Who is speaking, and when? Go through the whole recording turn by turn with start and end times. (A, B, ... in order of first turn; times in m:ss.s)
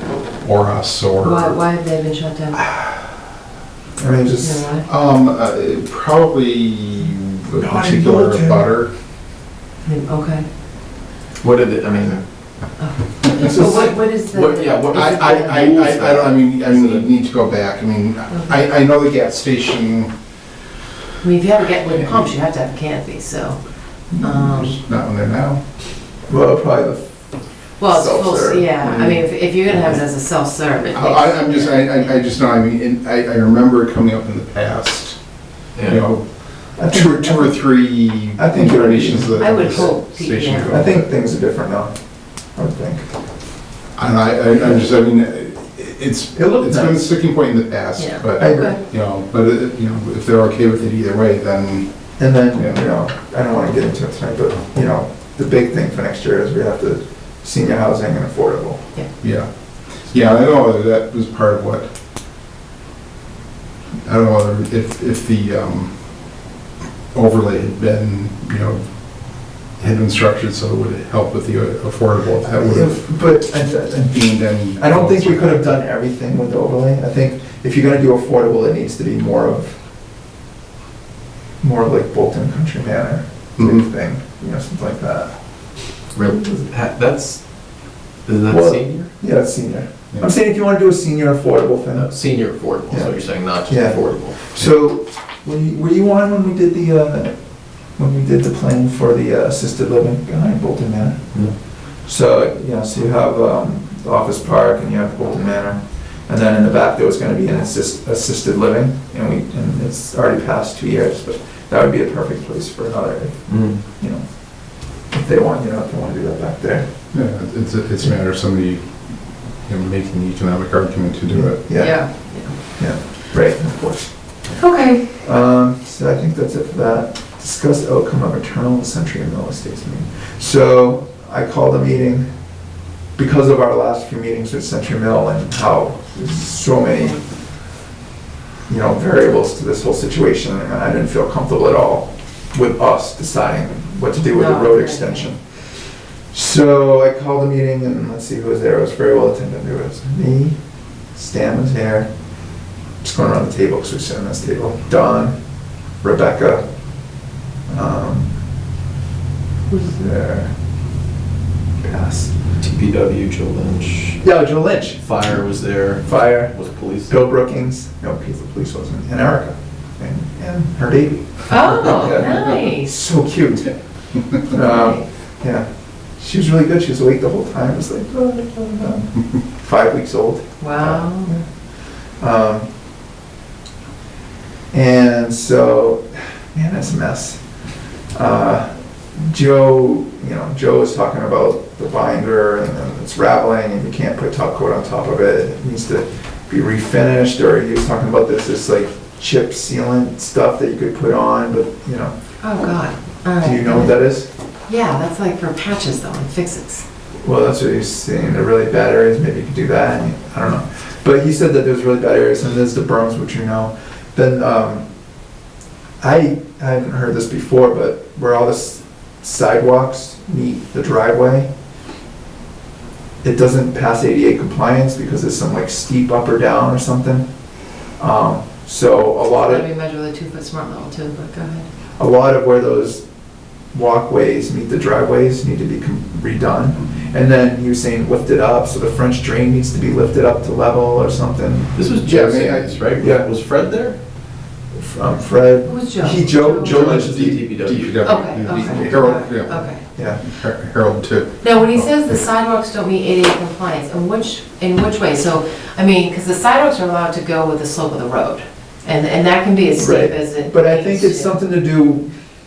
0:00.3-0:01.6 A
0:01.2-0:02.6 B
0:04.0-0:04.7 C
0:04.4-0:04.9 B
0:04.9-0:08.9 A
0:07.6-0:08.7 C
0:09.8-0:10.4 B
0:11.4-0:12.2 D
0:12.8-0:15.7 B
0:13.3-0:13.9 C
0:14.3-0:17.0 D
0:14.9-0:20.1 A
0:21.2-0:24.8 B
0:24.2-0:25.6 A
0:26.3-0:28.7 C
0:27.8-0:32.1 B
0:30.9-0:35.2 A
0:35.8-0:36.0 D
0:35.8-0:41.0 A
0:36.8-0:37.8 C
0:38.4-0:39.9 C
0:39.4-0:40.8 B
0:40.7-0:43.1 C
0:44.0-0:51.9 A
0:46.4-0:47.0 C
0:48.0-0:48.8 B
0:48.4-0:48.8 C
0:52.2-0:58.8 C
0:52.6-0:52.8 A
0:59.2-0:59.5 A
1:00.0-1:01.9 A
1:04.1-1:06.4 A
1:07.1-1:13.4 A
1:12.6-1:19.8 C
1:14.1-1:15.7 A
1:21.6-1:25.4 C
1:23.6-1:23.8 A
1:26.1-1:29.1 D
1:28.5-1:32.1 C
1:31.9-1:34.7 D
1:32.9-1:56.9 C
1:53.5-1:53.8 D
1:57.1-2:01.6 A
2:01.3-2:04.2 C
2:01.7-2:02.6 B
2:04.6-2:05.0 B
2:05.2-2:12.3 C
2:13.2-2:17.2 C
2:18.7-2:25.4 C
2:24.3-2:25.3 B
2:26.3-2:30.6 C
2:31.1-2:32.1 C
2:33.0-2:35.4 C
2:36.0-2:38.3 C
2:39.8-2:40.5 C
2:41.8-2:42.3 C
2:42.6-2:44.2 D
2:44.2-2:45.0 C
2:45.0-2:47.1 D
2:46.0-2:53.7 C
2:51.5-2:52.9 B
2:54.4-3:01.5 C
2:54.5-2:55.0 B
3:00.6-3:01.3 B
3:02.2-3:02.7 C
3:04.7-3:07.4 C
3:08.1-3:22.1 C
3:22.4-3:24.0 B
3:23.4-3:24.3 C
3:24.7-3:26.8 B
3:27.2-3:34.9 C
3:36.0-3:41.5 C
3:43.2-3:47.3 C
3:47.9-3:49.6 C
3:49.3-3:51.7 B
3:52.0-3:53.0 C
3:53.7-4:01.8 C
4:01.8-4:04.0 D
4:02.0-4:02.8 A
4:03.0-4:03.3 C
4:04.7-4:07.4 C
4:05.6-4:06.9 B
4:06.6-4:08.2 D
4:07.0-4:11.4 A
4:08.0-4:09.8 B
4:08.6-4:09.0 C
4:10.0-4:10.2 C
4:11.4-4:21.3 B
4:19.8-4:22.1 C